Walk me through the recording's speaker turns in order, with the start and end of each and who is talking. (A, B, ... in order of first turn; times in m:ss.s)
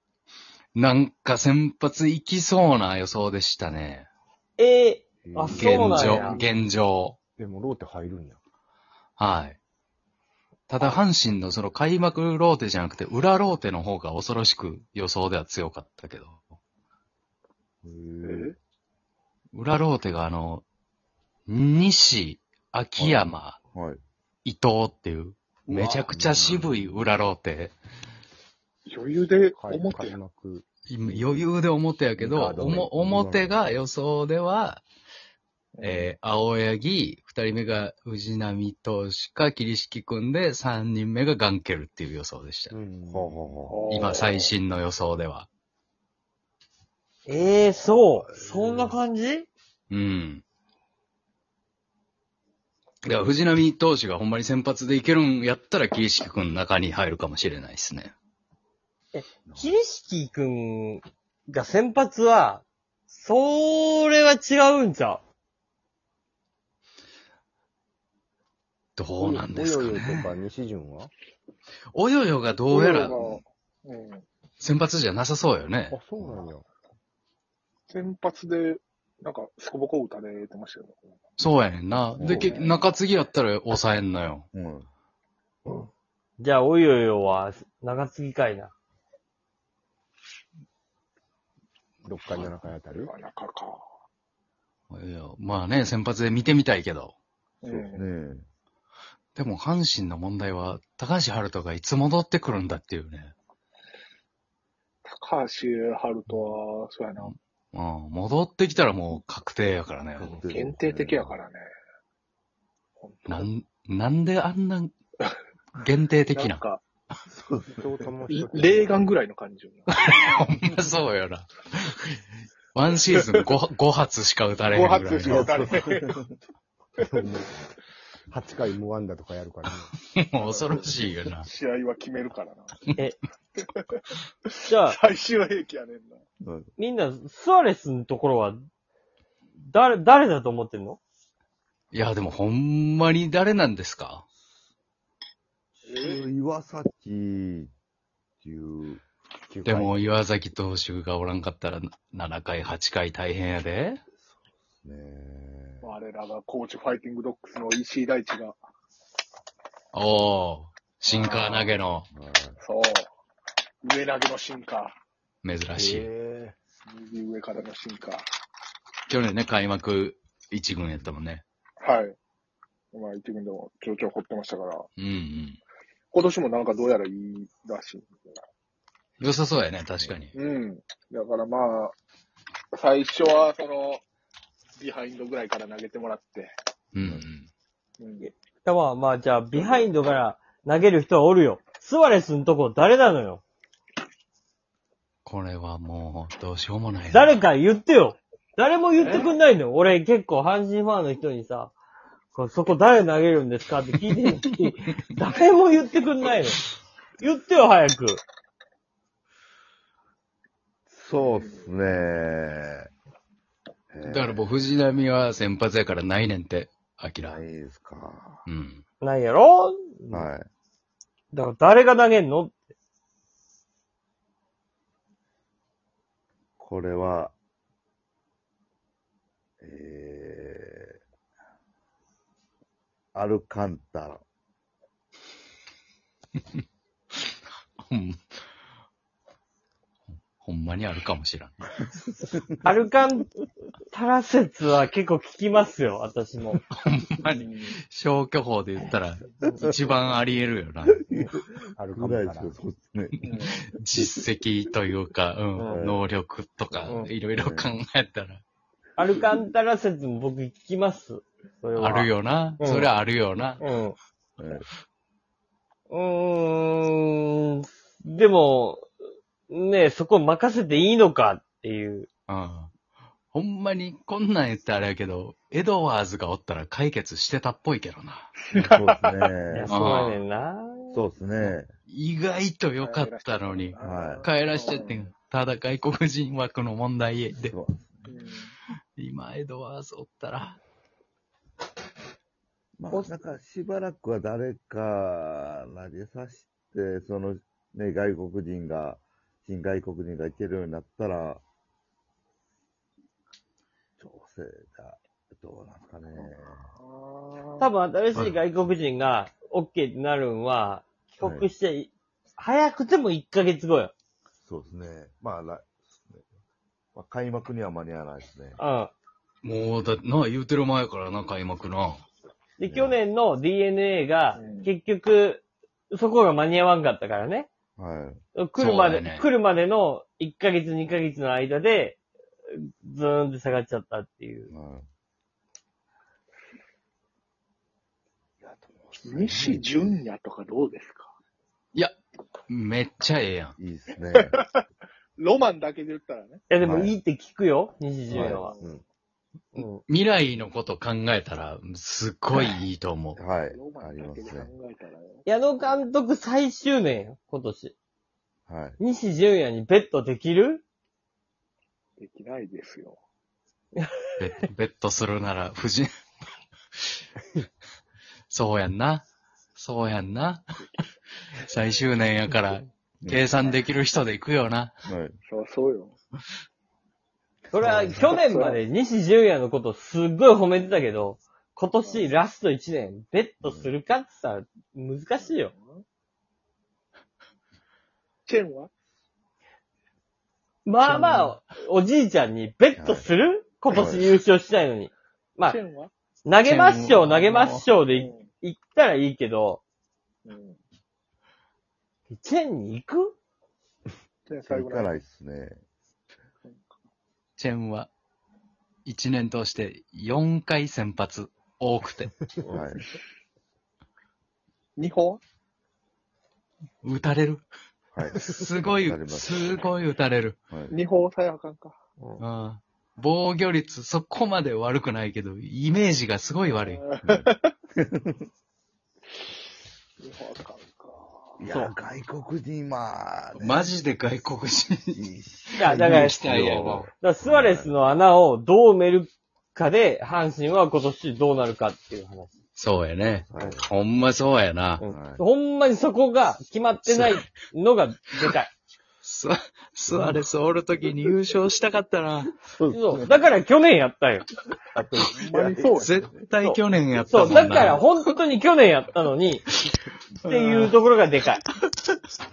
0:00.8-0:04.1 A
0:04.6-0:06.4 B
0:05.2-0:06.6 C
0:05.5-0:07.2 A
0:07.4-0:08.4 C
0:09.2-0:09.6 A
0:10.7-0:16.4 A
0:17.8-0:18.5 D
0:17.9-0:18.3 C
0:18.2-0:18.6 E
0:19.5-0:20.6 A
0:21.5-0:23.6 A
0:23.0-0:24.0 D
0:24.4-0:27.7 A
0:25.7-0:26.2 E
0:26.2-0:26.7 C
0:28.9-0:30.2 E
0:29.5-0:31.5 C
0:30.9-0:34.8 A
0:32.2-0:33.7 D
0:35.8-0:36.1 E
0:35.8-0:42.7 A
0:42.7-0:43.4 C
0:43.1-0:44.0 D
0:43.7-0:44.5 E
0:43.9-0:45.5 A
0:47.3-0:49.5 B
0:48.5-0:49.0 C
0:49.9-0:50.4 A
0:53.0-0:58.1 A
0:59.1-1:05.2 B
0:59.5-0:59.8 D
1:09.0-1:10.4 A
1:09.2-1:11.1 C
1:11.9-1:13.3 A
1:12.7-1:14.2 E
1:14.6-1:16.0 A
1:15.9-1:16.7 C
1:16.2-1:16.4 D
1:17.9-1:21.0 E
1:21.4-1:24.5 A
1:22.2-1:22.6 D
1:22.2-1:22.9 E
1:24.5-1:24.9 D
1:26.4-1:28.7 B
1:32.0-1:33.1 C
1:32.4-1:33.8 E
1:34.9-1:37.1 A
1:37.6-1:38.0 E
1:37.7-1:38.5 D
1:39.4-1:43.4 A
1:45.0-1:47.3 E
1:47.2-1:50.4 A
1:50.2-1:51.4 D
1:50.5-1:51.6 E
1:53.0-1:53.5 E
1:53.3-1:54.9 A
1:55.8-1:56.6 A
1:56.3-1:56.8 E
1:57.3-1:57.8 D
1:57.7-1:59.2 C
1:58.3-2:00.3 E
1:59.9-2:02.2 A
2:02.7-2:05.6 A
2:03.1-2:03.4 E
2:04.7-2:06.2 E
2:05.3-2:06.3 D
2:07.1-2:07.5 C
2:08.3-2:09.9 C
2:10.1-2:11.5 A
2:10.4-2:12.9 E
2:13.6-2:16.2 E
2:14.6-2:15.0 B
2:16.4-2:16.7 D
2:16.8-2:18.6 B
2:19.6-2:21.0 B
2:21.9-2:24.2 A
2:25.8-2:27.7 D
2:25.9-2:26.3 E
2:28.4-2:29.0 D
2:29.5-2:30.0 C
2:29.6-2:34.0 A
2:34.2-2:35.9 D
2:35.8-2:38.6 E
2:39.9-2:42.1 A
2:41.0-2:41.7 E
2:42.1-2:42.6 D
2:42.6-2:43.1 E
2:43.8-2:45.0 E
2:45.4-2:46.1 A
2:45.7-2:46.6 C
2:46.9-2:48.3 E
2:49.1-2:51.4 A
2:50.9-2:51.2 D
2:51.8-2:52.2 E
2:52.9-2:54.9 E
2:55.0-2:55.6 A
2:56.1-2:58.4 E
2:59.2-3:00.3 A
3:00.4-3:02.0 E
3:02.7-3:04.0 E
3:04.8-3:06.5 E
3:06.9-3:07.5 A
3:07.0-3:07.2 D
3:08.0-3:08.3 E
3:08.2-3:13.4 B
3:09.5-3:10.2 E
3:15.2-3:17.3 A
3:17.1-3:21.7 B
3:19.0-3:19.4 E
3:22.3-3:26.6 B
3:27.2-3:28.2 B
3:30.9-3:32.9 D
3:31.2-3:31.6 E
3:33.9-3:34.5 D
3:34.0-3:37.4 A
3:37.2-3:38.4 D
3:38.5-3:38.8 A
3:39.0-3:40.3 B
3:40.1-3:40.5 D
3:41.3-3:42.6 B
3:46.6-3:47.3 D
3:49.6-3:51.0 D
3:53.1-3:54.2 D
3:57.8-3:58.2 A
4:00.4-4:01.7 A
4:02.6-4:03.3 B
4:03.9-4:06.6 B
4:06.5-4:11.1 A
4:07.2-4:07.8 E
4:09.6-4:10.1 D
4:10.9-4:13.5 D
4:11.8-4:12.6 C
4:13.2-4:13.6 E
4:13.2-4:18.4 A
4:15.7-4:16.1 D
4:16.9-4:17.7 D
4:19.0-4:22.9 B
4:21.8-4:23.6 A
4:23.6-4:24.0 B
4:24.4-4:24.6 D
4:25.9-4:28.9 B
4:29.5-4:32.1 B
4:32.3-4:32.7 A
4:33.3-4:38.8 A
4:38.5-4:40.1 D
4:38.5-4:39.3 E
4:39.5-4:41.0 B
4:39.7-4:40.2 A
4:40.9-4:41.7 D
4:41.4-4:47.6 A
4:42.8-4:45.1 E
4:43.8-4:44.3 D
4:47.4-4:48.1 D
4:48.1-4:48.5 E
4:49.0-4:50.6 A
4:52.8-5:01.4 D
5:04.0-5:06.7 D
5:06.1-5:07.7 E
5:07.6-5:13.9 B
5:11.2-5:11.5 D
5:14.4-5:16.3 D
5:16.9-5:18.6 D
5:18.6-5:18.9 B
5:19.4-5:22.0 A
5:22.6-5:27.5 B
5:22.6-5:23.0 D
5:24.4-5:24.7 E
5:27.8-5:28.2 D
5:28.4-5:32.0 B
5:28.6-5:29.3 A
5:32.5-5:34.5 B
5:34.5-5:34.9 D
5:38.4-5:40.0 D
5:39.0-5:41.1 E
5:42.5-5:43.6 A
5:43.6-5:44.4 D
5:44.2-5:44.6 E
5:45.2-5:46.4 E
5:46.5-5:48.5 B
5:46.6-5:47.0 D
5:48.1-5:48.8 E
5:48.1-5:48.4 D
5:49.6-5:49.8 B
5:49.9-5:53.2 A
5:53.2-5:54.5 D
5:53.5-5:55.3 E
5:55.3-5:57.8 B
5:58.5-5:58.8 D
5:58.8-6:00.6 B
6:02.0-6:03.0 E
6:03.8-6:04.0 B
6:04.2-6:05.9 A
6:08.3-6:09.0 A
6:09.6-6:10.4 A
6:11.3-6:14.7 A
6:13.0-6:13.6 D
6:14.9-6:15.2 D
6:15.3-6:16.0 E
6:17.5-6:25.5 B
6:18.0-6:18.6 E
6:21.8-6:22.2 E
6:23.4-6:23.7 D
6:25.2-6:25.8 E
6:28.3-6:28.7 E
6:30.7-6:35.6 B
6:30.8-6:31.3 A
6:32.8-6:33.1 D
6:33.7-6:34.1 D
6:35.4-6:35.9 E
6:36.2-6:39.6 B
6:36.4-6:37.7 A
6:37.9-6:38.3 E
6:40.2-6:40.6 E
6:42.1-6:43.2 B
6:44.3-6:45.0 E
6:44.4-6:45.6 D
6:46.4-6:46.8 E
6:47.4-6:47.9 A
6:48.9-6:52.1 A
6:52.5-6:52.8 D
6:54.8-6:55.2 E
6:56.8-6:57.4 A
6:57.9-6:59.7 D
6:58.1-7:00.4 A
7:00.7-7:01.8 E
7:02.2-7:06.8 A
7:06.4-7:07.5 E
7:07.0-7:08.2 D
7:10.0-7:11.3 E
7:11.4-7:13.7 D
7:11.5-7:11.7 B
7:13.4-7:15.0 A
7:14.9-7:17.8 D
7:15.5-7:16.9 A
7:15.6-7:16.2 B
7:16.9-7:22.3 B
7:22.6-7:24.8 A
7:23.3-7:23.7 D
7:24.8-7:28.5 B
7:24.9-7:25.2 D
7:26.9-7:27.3 A
7:29.0-7:32.4 A
7:32.5-7:33.2 D
7:32.7-7:34.3 B
7:34.7-7:36.1 C
7:35.1-7:36.1 E
7:35.7-7:38.0 A
7:36.4-7:39.4 B
7:40.2-7:40.7 A
7:40.2-7:41.4 B